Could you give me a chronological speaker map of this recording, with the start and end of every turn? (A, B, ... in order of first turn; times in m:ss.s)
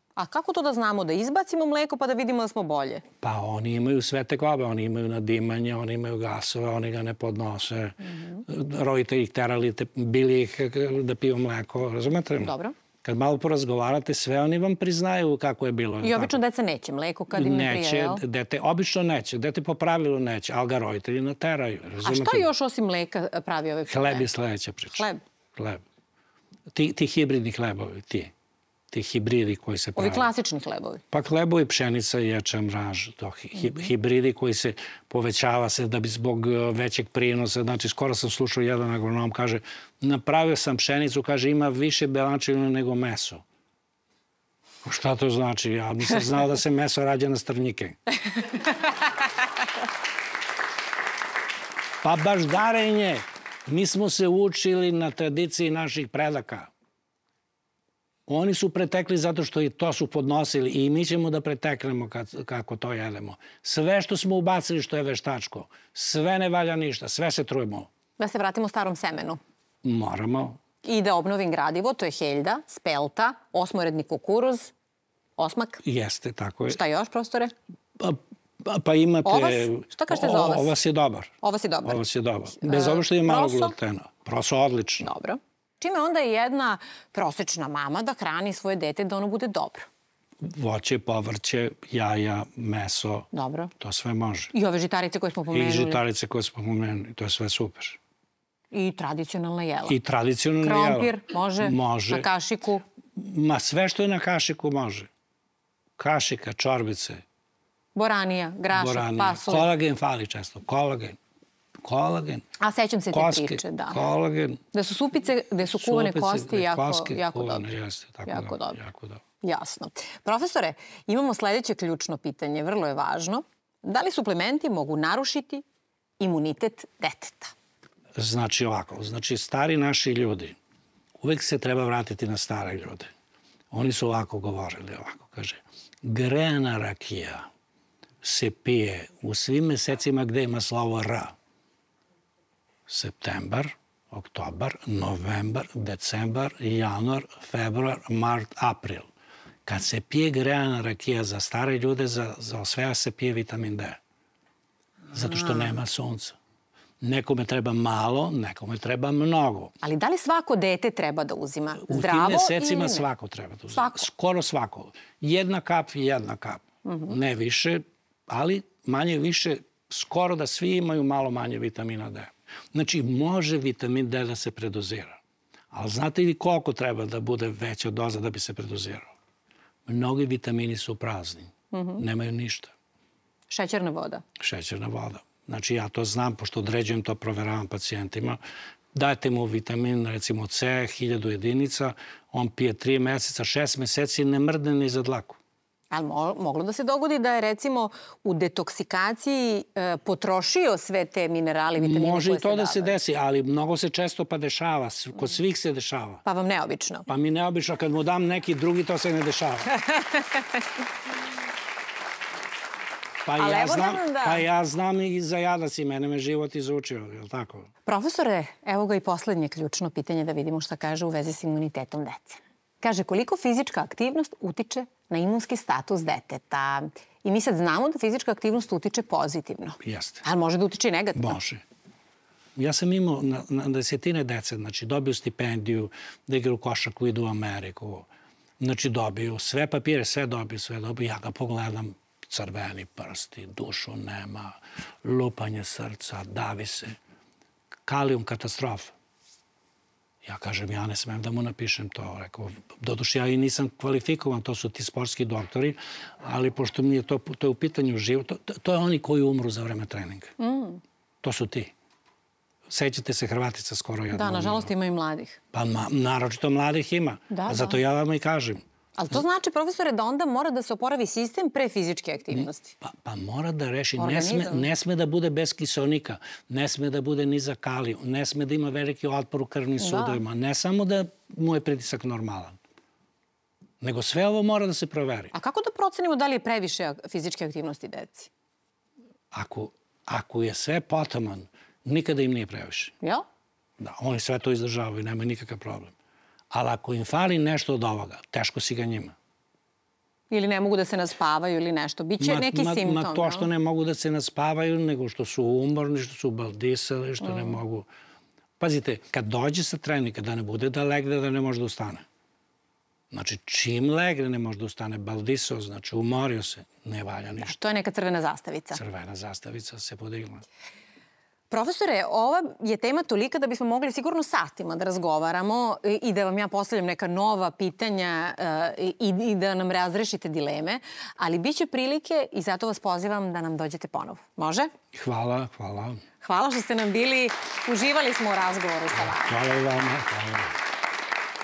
0:00.2-0:03.0 A
0:03.2-0:16.4 B
0:12.4-0:12.8 A
0:16.0-0:18.2 A
0:17.3-0:22.5 B
0:22.0-0:24.3 A
0:23.9-0:25.8 B
0:24.9-0:25.2 A
0:26.7-0:28.3 B
0:28.9-0:30.3 B
0:30.0-0:31.0 A
0:31.1-0:43.4 B
0:44.8-0:48.0 B
0:52.0-0:56.7 B
0:58.3-1:07.9 B
1:08.2-1:09.4 A
1:09.8-1:10.6 B
1:10.8-1:14.7 A
1:15.4-1:15.8 A
1:15.8-1:16.8 B
1:16.7-1:17.5 A
1:18.0-1:25.1 B
1:19.2-1:20.7 A
1:21.4-1:22.0 A
1:22.6-1:23.8 A
1:25.0-1:29.9 A
1:30.4-1:33.3 B
1:33.3-1:33.7 A
1:33.8-1:34.5 B
1:34.5-1:36.0 A
1:35.5-1:38.0 B
1:38.7-1:40.0 A
1:39.9-1:42.3 B
1:40.6-1:42.8 A
1:43.2-1:45.1 B
1:46.0-1:47.2 B
1:47.9-1:49.7 A
1:48.7-1:51.2 B
1:51.8-1:52.4 B
1:52.6-1:54.0 A
1:53.1-1:54.6 B
1:54.7-1:57.7 A
1:55.7-1:59.2 B
1:58.3-1:58.8 A
1:59.4-2:05.6 A
2:06.2-2:07.5 A
2:08.2-2:10.6 B
2:11.2-2:13.1 B
2:13.7-2:17.5 B
2:18.2-2:21.3 B
2:22.9-2:29.1 B
2:29.6-2:34.0 B
2:35.1-2:36.4 B
2:37.0-2:39.7 B
2:39.8-2:43.1 A
2:41.9-2:55.2 B
2:43.7-2:44.1 A
2:46.8-2:47.1 A
2:55.7-2:59.1 B
2:59.9-3:02.7 B
3:01.7-3:02.0 A
3:03.5-3:04.2 A
3:04.4-3:08.4 B
3:08.9-3:15.4 B
3:15.9-3:23.0 A
3:21.8-3:26.2 B
3:26.2-3:27.1 A
3:27.1-3:29.7 B
3:29.8-3:30.5 A
3:33.2-3:37.7 B
3:33.4-3:34.5 A
3:37.9-3:51.4 A
3:49.8-3:50.2 B
3:51.2-3:51.6 B
3:52.6-3:58.1 B
3:58.6-4:07.0 B
4:07.9-4:08.9 B
4:10.2-4:20.3 B
4:20.4-4:20.8 A
4:21.2-4:21.7 B
4:22.7-4:24.7 B
4:24.1-4:25.4 A
4:25.5-4:28.6 B
4:27.3-4:27.8 A
4:29.0-4:32.7 A
4:32.8-4:42.6 B
4:34.0-4:34.7 A
4:39.8-4:40.2 A
4:43.8-4:45.3 B
4:45.3-4:48.3 A
4:49.3-4:52.9 B
4:53.8-4:55.9 B
4:56.5-4:59.1 B
5:00.3-5:03.5 A
5:02.2-5:07.9 B
5:07.2-5:07.6 A
5:08.6-5:12.0 B
5:13.1-5:17.5 B
5:17.4-5:18.8 A
5:18.7-5:20.4 B
5:21.5-5:34.7 A
5:34.9-5:36.0 B
5:36.2-5:39.4 A
5:39.0-5:40.5 B